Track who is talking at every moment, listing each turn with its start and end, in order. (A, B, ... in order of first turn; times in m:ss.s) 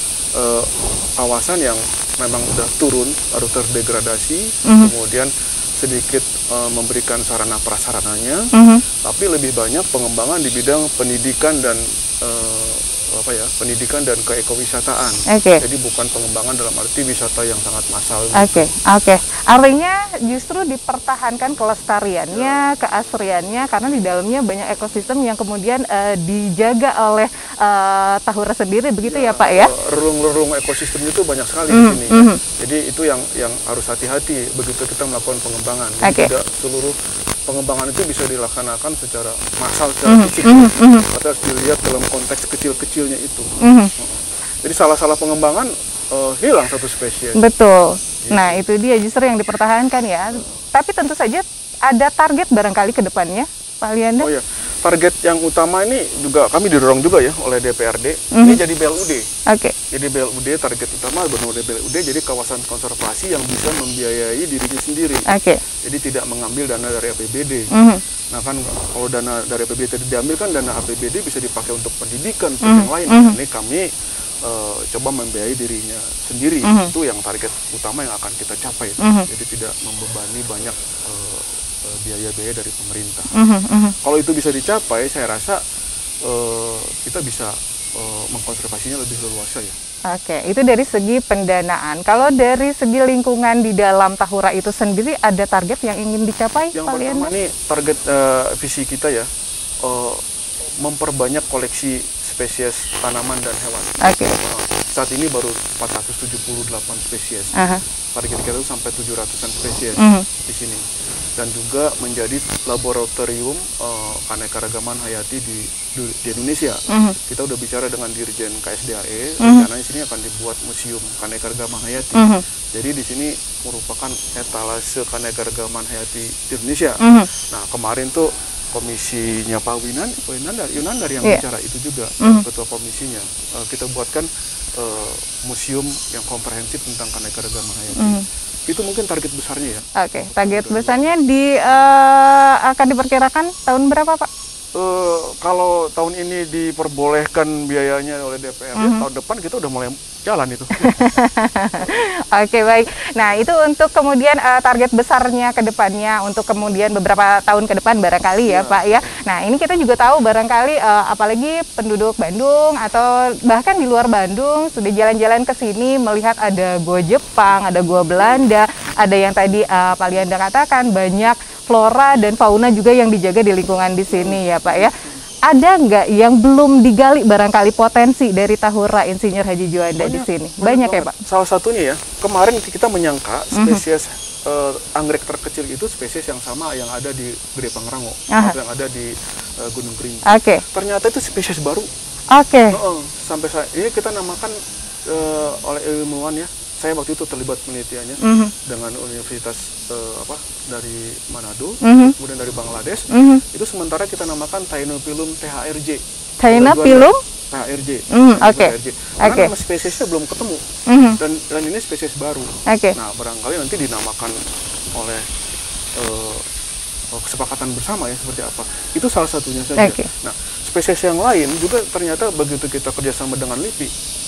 0:00.4-0:08.4 A
0:04.7-0:04.9 B
0:08.5-0:08.8 B
0:09.0-0:18.7 A
0:15.3-0:15.6 B
0:18.4-0:29.7 B
0:29.0-0:37.0 A
0:31.7-0:32.4 B
0:36.0-0:36.3 B
0:37.5-0:47.4 A
0:40.1-0:41.0 B
0:43.6-0:43.9 B
0:47.4-0:54.3 B
0:48.2-0:48.6 A
0:54.2-0:59.3 A
0:58.3-0:58.6 B
0:59.5-0:59.8 B
0:59.9-1:05.3 A
1:05.3-1:05.6 B
1:05.8-1:07.7 A
1:07.7-1:08.0 B
1:08.3-1:13.9 A
1:12.6-1:13.4 B
1:14.4-1:23.3 A
1:16.6-1:16.9 B
1:19.0-1:19.3 B
1:23.4-1:24.0 B
1:24.0-1:25.6 A
1:26.2-1:29.8 A
1:30.1-1:37.3 B
1:36.7-1:39.3 A
1:39.8-1:40.2 A
1:40.8-1:47.5 A
1:44.0-1:44.4 B
1:47.6-1:47.8 B
1:48.1-1:50.9 A
1:50.0-1:50.2 B
1:51.4-2:21.1 A
1:56.9-1:57.2 B
1:59.4-1:59.7 B
2:02.2-2:02.4 B
2:07.0-2:07.3 B
2:18.0-2:18.2 B
2:20.0-2:24.3 B
2:24.8-2:31.1 A
2:28.8-2:29.0 B
2:30.8-2:54.9 B
2:38.5-2:39.2 A
2:48.2-2:48.4 A
2:54.1-2:55.2 A
2:55.5-3:01.2 B
3:00.0-3:11.9 A
3:03.6-3:03.8 B
3:10.3-3:10.6 B
3:12.3-3:12.8 B
3:12.7-3:14.6 A
3:15.1-3:30.6 A
3:18.2-3:18.5 B
3:21.8-3:22.1 B
3:23.1-3:23.4 B
3:26.4-3:27.2 B
3:28.1-3:29.5 B
3:30.9-3:31.2 B
3:31.2-3:34.4 A
3:32.7-3:33.0 B
3:35.0-3:35.2 A
3:36.0-3:36.4 A
3:37.1-3:43.9 A
3:39.8-3:40.1 B